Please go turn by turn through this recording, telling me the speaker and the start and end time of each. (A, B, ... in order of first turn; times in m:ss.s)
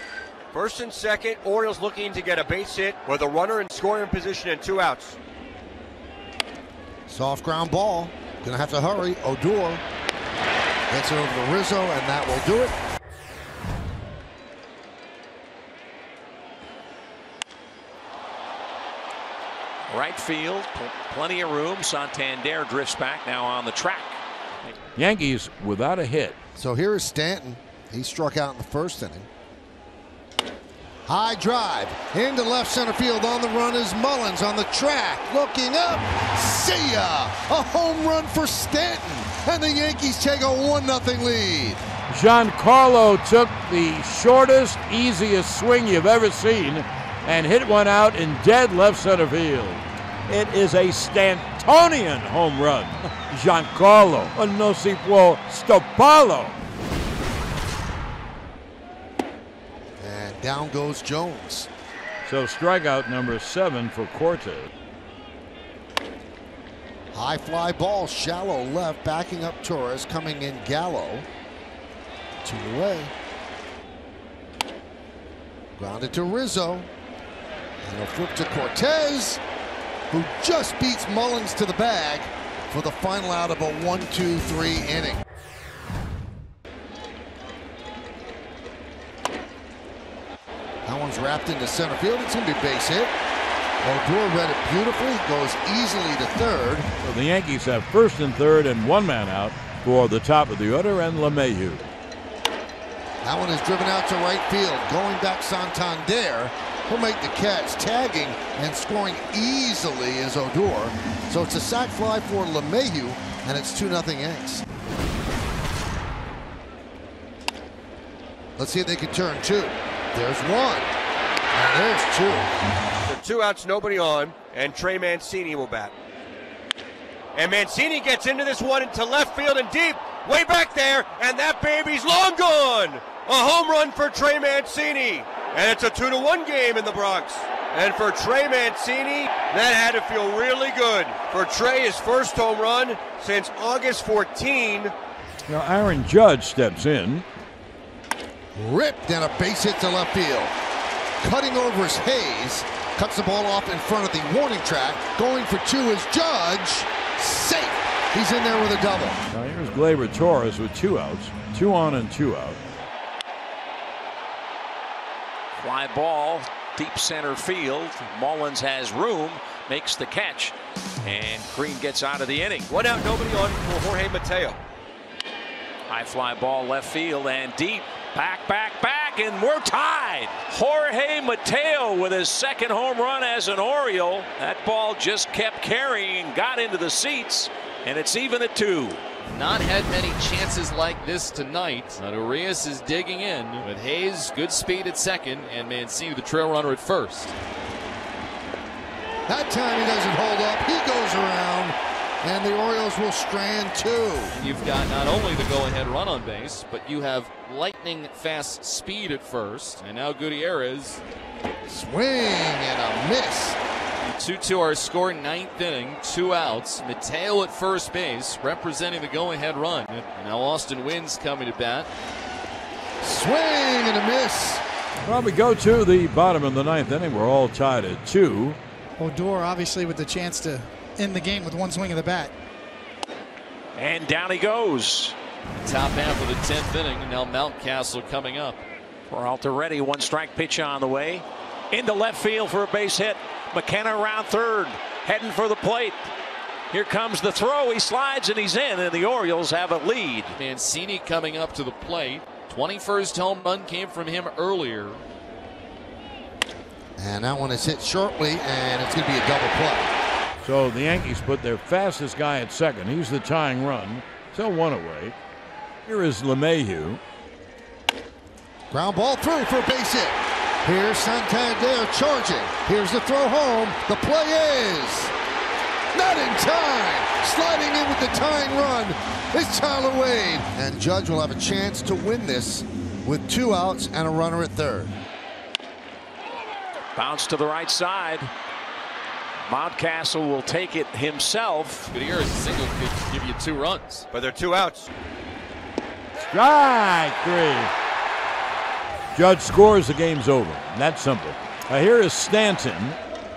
0:00.5-0:05.2 A
0:07.1-0:09.8 B
0:10.9-0:12.7 B
0:19.9-0:24.7 C
0:25.0-0:26.4 D
0:26.6-0:29.3 B
0:31.0-0:41.8 B
0:42.1-0:56.6 D
1:00.0-1:01.7 B
1:02.2-1:04.7 D
1:07.1-1:11.2 B
1:12.4-1:13.1 B
1:15.8-1:16.9 B
1:17.8-1:19.4 B
1:20.1-1:25.2 B
1:30.8-1:33.1 B
1:33.8-1:36.9 B
1:37.0-1:41.9 D
1:43.2-1:54.6 B
1:58.6-2:00.9 B
2:01.5-2:02.5 B
2:03.1-2:05.9 A
2:07.3-2:24.9 A
2:25.5-2:27.2 D
2:28.5-2:30.5 B
2:31.2-2:39.2 B
2:39.3-2:42.6 D
2:45.5-2:52.7 C
2:52.7-2:54.6 A
2:55.9-3:09.0 C
3:09.3-3:17.3 E
3:19.3-3:24.3 B
3:24.3-3:31.0 E
3:31.7-3:33.6 B
3:34.0-3:41.9 E
3:43.0-3:44.6 B
3:45.0-3:48.6 D
3:49.0-3:52.3 F
3:53.8-3:55.1 C
3:55.5-3:58.6 E
3:59.1-4:06.1 C
4:06.7-4:10.4 C
4:10.4-4:15.0 E
4:17.0-4:19.9 B
4:20.4-4:25.2 D
4:25.8-4:27.0 D
4:28.7-4:35.1 B
4:35.9-4:44.9 B
4:46.9-4:48.3 C
4:49.5-4:51.9 C
4:51.9-4:54.0 E
4:54.1-4:54.9 A
4:56.2-4:57.7 D
4:59.1-5:03.0 D